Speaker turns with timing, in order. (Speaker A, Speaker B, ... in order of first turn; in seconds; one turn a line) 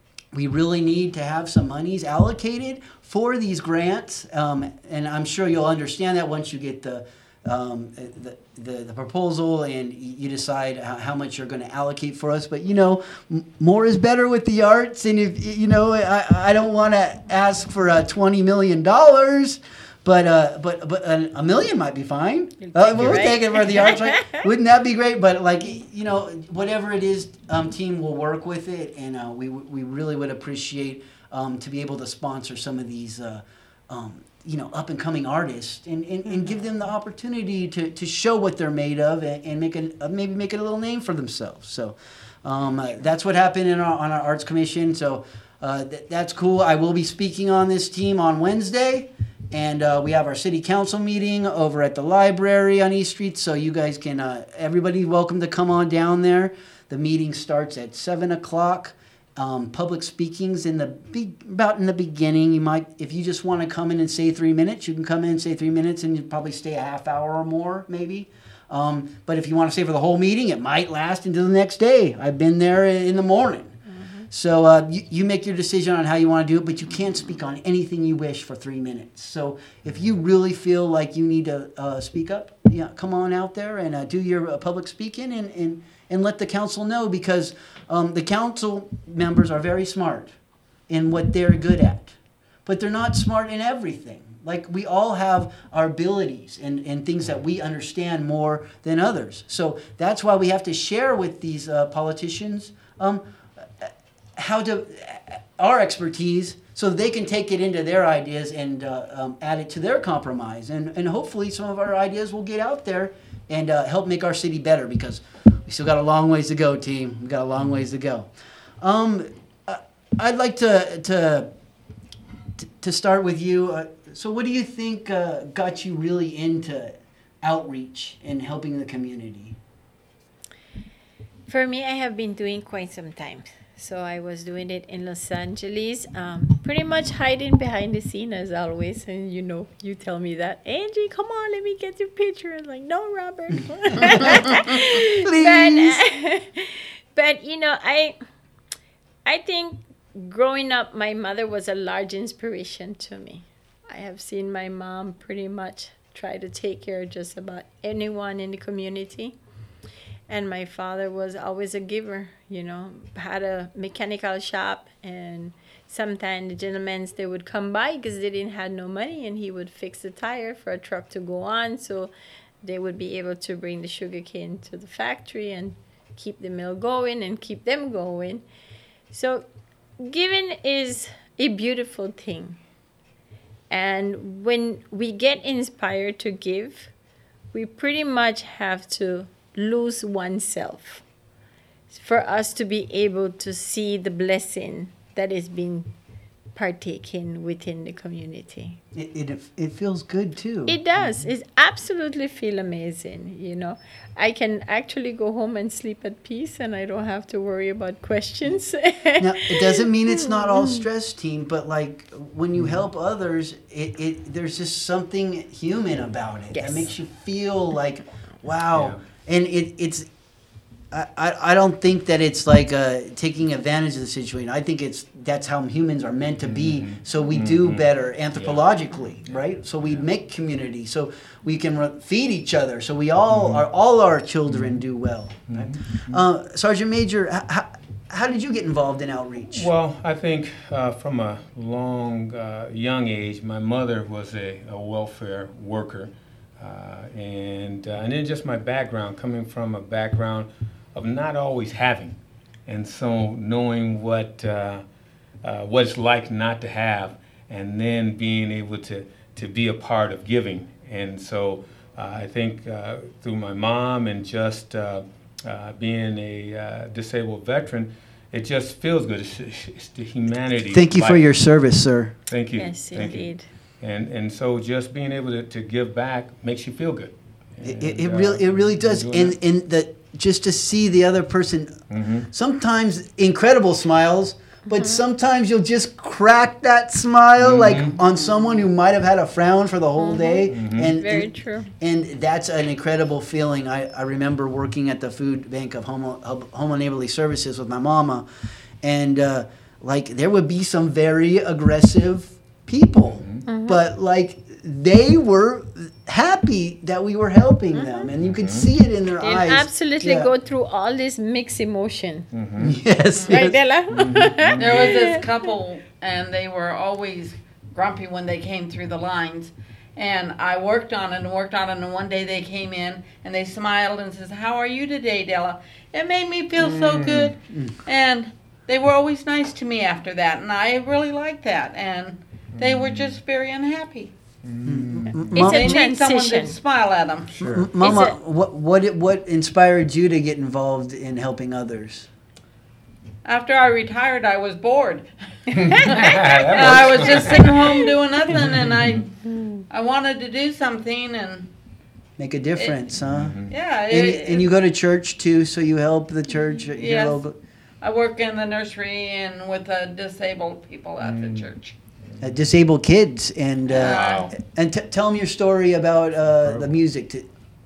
Speaker A: 0.3-73.8
Speaker B: 22.6-24.5
Speaker B: 36.3-36.6
Speaker B: 73.9-74.3
Speaker A: 74.3-90.3
Speaker A: 90.9-103.2
Speaker A: 103.8-118.3
Speaker A: 118.8-121.5
Speaker A: 122.6-129.6
Speaker B: 131.5-148.2
Speaker A: 143.9-146.0
Speaker B: 149.2-159.4
Speaker B: 160.3-178.4
Speaker B: 179.1-179.5
Speaker B: 180.0-182.6
Speaker B: 183.7-186.9
Speaker B: 187.5-191.0
Speaker B: 191.9-195.9
Speaker B: 196.5-198.8
Speaker A: 198.9-200.8
Speaker B: 200.7-210.9
Speaker C: 201.0-201.3
Speaker A: 209.2-220.1
Speaker C: 212.6-212.8
Speaker B: 216.5-216.9
Speaker C: 218.7-219.1
Speaker A: 220.9-239.7
Speaker C: 226.4-228.7
Speaker C: 229.2-230.1
Speaker C: 233.3-233.7
Speaker C: 234.5-234.8
Speaker C: 235.5-236.2
Speaker C: 239.5-254.8
Speaker C: 255.4-271.3
Speaker A: 270.7-272.2
Speaker C: 272.3-273.3
Speaker B: 272.6-273.5
Speaker C: 273.8-279.4
Speaker A: 277.6-281.8
Speaker C: 281.9-282.3
Speaker A: 282.3-298.2
Speaker B: 284.7-285.0
Speaker C: 287.4-288.0
Speaker D: 288.2-288.6
Speaker B: 290.0-291.7
Speaker C: 290.5-291.0
Speaker A: 298.8-310.3
Speaker C: 303.2-303.5
Speaker B: 303.5-303.8
Speaker B: 307.7-308.1
Speaker C: 308.2-308.7
Speaker B: 309.2-312.3
Speaker C: 312.3-312.8
Speaker A: 312.6-313.6
Speaker B: 313.2-315.5
Speaker C: 313.9-315.0
Speaker D: 314.6-327.3
Speaker C: 326.6-327.4
Speaker A: 327.5-327.8
Speaker D: 327.9-334.1
Speaker C: 332.6-333.2
Speaker C: 334.4-335.6
Speaker A: 334.6-335.8
Speaker B: 335.3-336.6
Speaker D: 335.5-337.3
Speaker C: 337.3-337.8
Speaker A: 337.4-342.1
Speaker B: 337.8-338.2
Speaker D: 343.2-345.1
Speaker C: 345.5-349.1
Speaker D: 345.9-349.1
Speaker B: 346.6-347.9
Speaker B: 349.3-349.6
Speaker D: 349.7-351.5
Speaker A: 352.2-353.4
Speaker D: 352.6-352.8
Speaker C: 353.0-353.5
Speaker D: 353.5-354.5
Speaker A: 353.9-357.4
Speaker D: 356.7-357.2
Speaker D: 357.8-361.7
Speaker C: 361.0-361.5
Speaker A: 362.2-367.3
Speaker D: 363.7-364.2
Speaker C: 363.8-364.3
Speaker C: 366.4-366.8